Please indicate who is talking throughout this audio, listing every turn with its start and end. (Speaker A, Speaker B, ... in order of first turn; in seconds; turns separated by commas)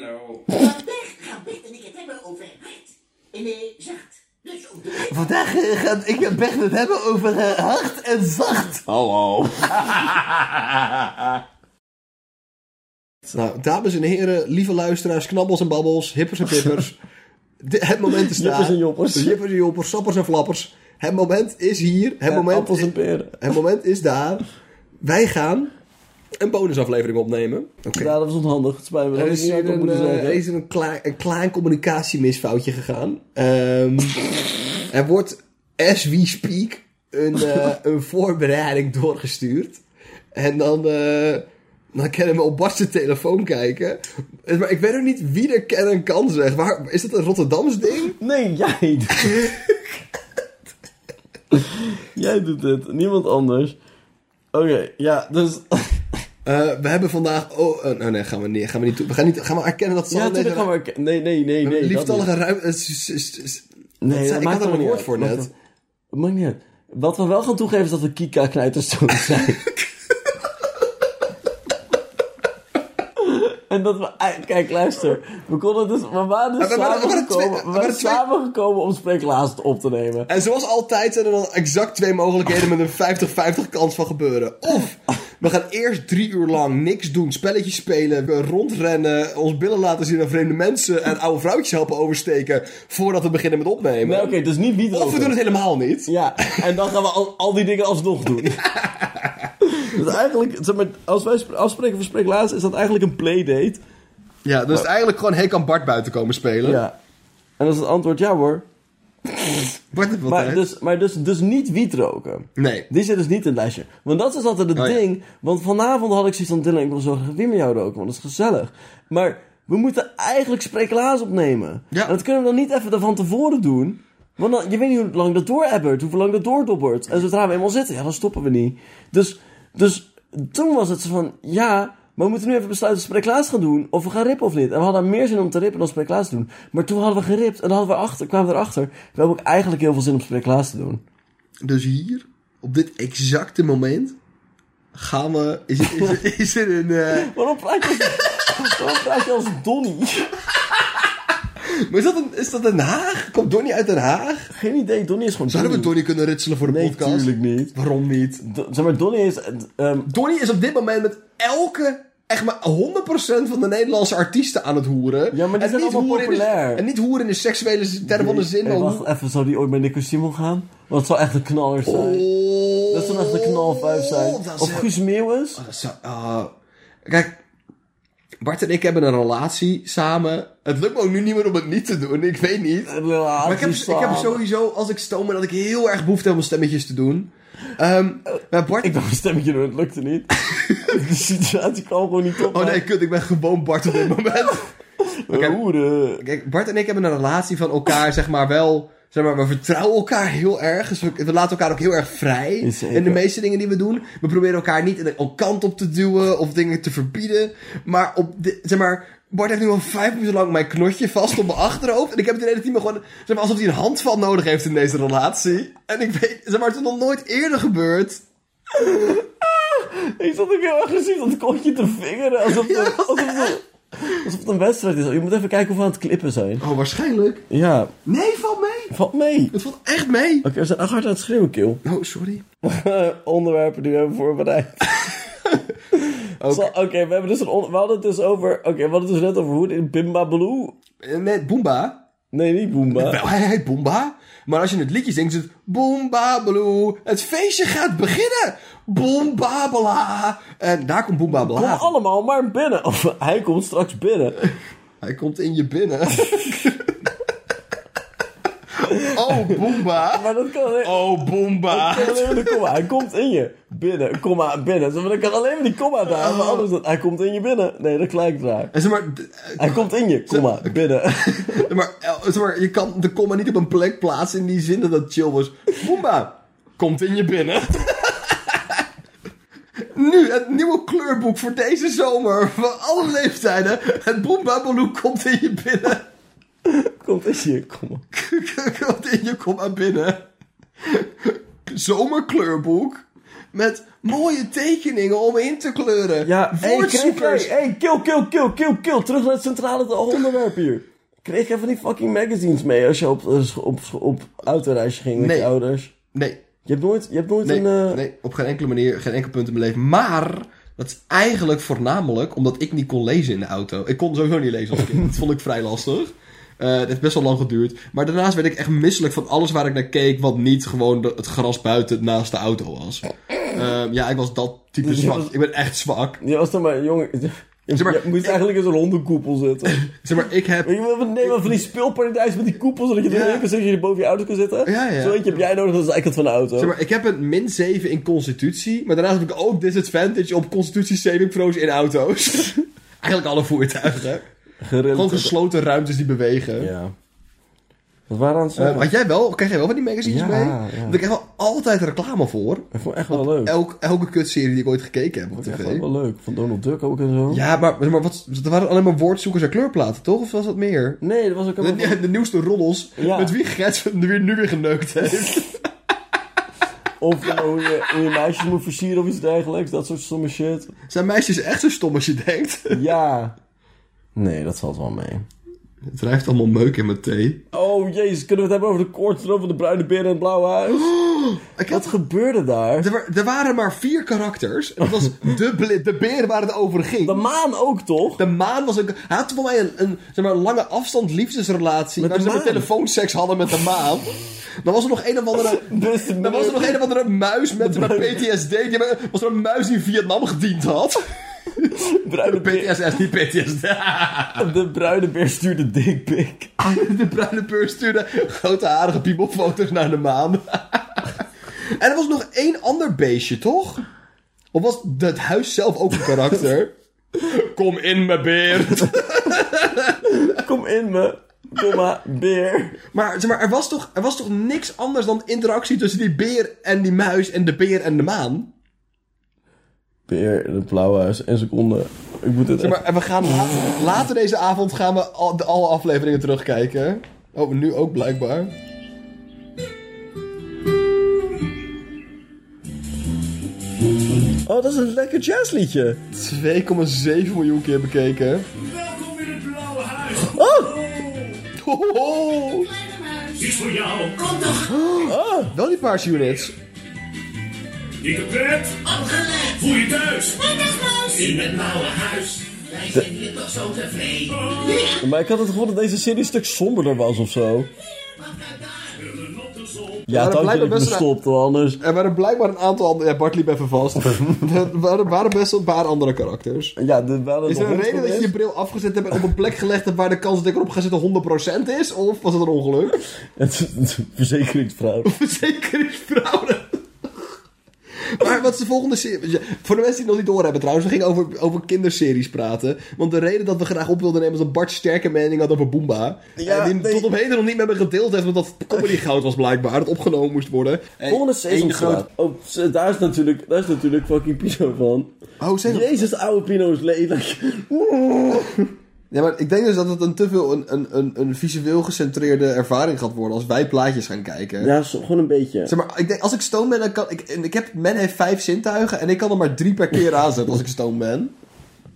Speaker A: 0.4-5.3, Speaker B: 5.0-8.9, Speaker C: 8.9-10.1, Speaker B: 9.7-10.8, Speaker B: 13.3-17.0, Speaker B: 17.6-24.4, Speaker C: 18.3-19.4, Speaker C: 22.2-23.5, Speaker B: 25.0-25.7, Speaker B: 26.4-28.1, Speaker C: 27.9-30.4, Speaker B: 29.1-34.2, Speaker B: 34.9-39.8, Speaker B: 40.3-48.2, Speaker C: 48.2-49.5, Speaker B: 49.2-49.8, Speaker C: 51.6-53.8, Speaker C: 54.5-56.0, Speaker B: 56.4-60.7, Speaker C: 60.1-62.3, Speaker B: 61.6-65.5, Speaker C: 64.0-65.5, Speaker C: 66.1-69.7, Speaker C: 73.2-80.3, Speaker B: 76.6-78.2, Speaker B: 80.3-94.3, Speaker C: 94.0-95.4, Speaker B: 94.9-96.1, Speaker C: 96.0-98.7, Speaker B: 98.3-99.5, Speaker C: 99.6-103.8, Speaker B: 104.4-106.8, Speaker C: 106.6-106.9, Speaker C: 107.6-108.6, Speaker C: 109.2-109.8, Speaker B: 109.9-110.7, Speaker C: 110.3-141.0, Speaker B: 112.5-112.9, Speaker B: 114.7-115.0, Speaker B: 141.6-144.2, Speaker B: 144.9-147.3, Speaker C: 145.9-146.2, Speaker C: 147.1-150.3, Speaker B: 147.8-148.6, Speaker B: 150.6-151.0, Speaker B: 151.6-154.5, Speaker C: 154.5-155.9, Speaker B: 155.5-158.4, Speaker C: 156.6-157.7, Speaker C: 158.4-160.1, Speaker B: 160.1-169.1, Speaker C: 165.3-166.8, Speaker C: 168.0-172.3, Speaker B: 171.8-174.9, Speaker C: 172.9-175.6, Speaker B: 175.5-176.5, Speaker B: 177.1-177.4, Speaker B: 178.4-189.0, Speaker C: 182.9-184.4, Speaker C: 188.8-192.8, Speaker B: 190.5-191.0, Speaker B: 192.4-194.7, Speaker C: 195.0-196.2, Speaker B: 195.3-195.6, Speaker B: 196.2-218.2, Speaker C: 202.6-203.2, Speaker C: 218.7-226.7, Speaker B: 222.4-223.6, Speaker B: 226.6-227.5, Speaker C: 227.5-227.9, Speaker B: 228.0-228.9, Speaker C: 228.9-229.5, Speaker B: 229.5-230.5, Speaker C: 230.4-231.8, Speaker B: 231.8-232.4, Speaker C: 232.6-235.1, Speaker B: 235.1-235.6, Speaker C: 235.9-240.8, Speaker B: 236.4-236.7, Speaker B: 241.0-242.0, Speaker C: 242.3-243.2, Speaker B: 242.9-251.9, Speaker C: 251.3-254.4, Speaker B: 255.0-256.9, Speaker C: 258.8-261.0, Speaker B: 258.8-260.3, Speaker B: 260.8-262.6, Speaker C: 261.7-268.7, Speaker B: 266.1-266.7, Speaker B: 268.7-278.8, Speaker C: 269.6-271.7, Speaker B: 279.9-286.1, Speaker C: 286.6-288.0, Speaker B: 288.1-290.2, Speaker B: 290.8-297.6, Speaker C: 296.2-305.9, Speaker B: 305.1-305.5, Speaker B: 306.1-306.4, Speaker C: 306.6-308.0, Speaker B: 307.4-326.2, Speaker C: 324.8-325.3, Speaker C: 326.2-329.9, Speaker B: 327.7-328.4, Speaker B: 329.6-331.7, Speaker C: 330.6-336.7, Speaker B: 333.1-333.5, Speaker B: 334.6-335.5, Speaker B: 336.6-344.3, Speaker C: 344.6-345.3, Speaker B: 344.9-346.7, Speaker C: 346.6-346.9, Speaker C: 348.1-348.9, Speaker B: 348.6-355.8, Speaker C: 350.0-351.0, Speaker C: 352.7-353.6, Speaker C: 355.4-357.4, Speaker B: 357.3-361.0, Speaker C: 361.0-362.0, Speaker B: 361.6-365.6, Speaker C: 363.0-363.3, Speaker C: 367.0-370.7, Speaker B: 370.9-372.9, Speaker C: 372.7-373.3, Speaker C: 374.1-375.3, Speaker B: 375.9-377.4, Speaker C: 377.5-380.9, Speaker B: 380.7-381.9, Speaker C: 381.7-382.9, Speaker B: 382.8-387.2, Speaker C: 387.0-388.2, Speaker B: 388.2-394.1, Speaker C: 392.0-392.7, Speaker B: 394.6-404.5, Speaker C: 395.5-396.8, Speaker C: 397.6-398.2, Speaker C: 401.7-402.7, Speaker C: 404.4-406.5, Speaker B: 406.6-413.8, Speaker B: 414.5-420.2, Speaker C: 420.0-422.8, Speaker B: 422.9-428.5, Speaker C: 430.1-432.8, Speaker B: 432.6-438.5, Speaker C: 444.4-446.0, Speaker B: 446.1-448.5, Speaker D: 448.6-451.4, Speaker C: 450.4-450.7, Speaker B: 451.6-452.7, Speaker A: 452.4-453.5, Speaker D: 453.4-454.4, Speaker A: 454.2-454.7, Speaker B: 454.7-456.5, Speaker C: 455.0-455.5, Speaker D: 458.0-458.8, Speaker A: 458.8-465.0, Speaker D: 459.6-460.4, Speaker D: 461.1-462.1, Speaker D: 464.3-464.9, Speaker C: 465.0-467.7, Speaker A: 467.8-469.0, Speaker D: 469.0-470.1, Speaker C: 470.1-471.8, Speaker B: 470.1-471.1, Speaker B: 471.8-476.8, Speaker C: 474.1-474.4, Speaker C: 476.8-478.3, Speaker B: 477.4-483.0, Speaker C: 483.4-485.1, Speaker B: 485.0-486.8, Speaker B: 488.1-502.1, Speaker C: 496.4-497.1, Speaker C: 501.1-505.1, Speaker B: 505.4-506.0, Speaker C: 505.7-508.7, Speaker B: 509.1-514.7, Speaker C: 514.6-515.7, Speaker B: 515.6-521.3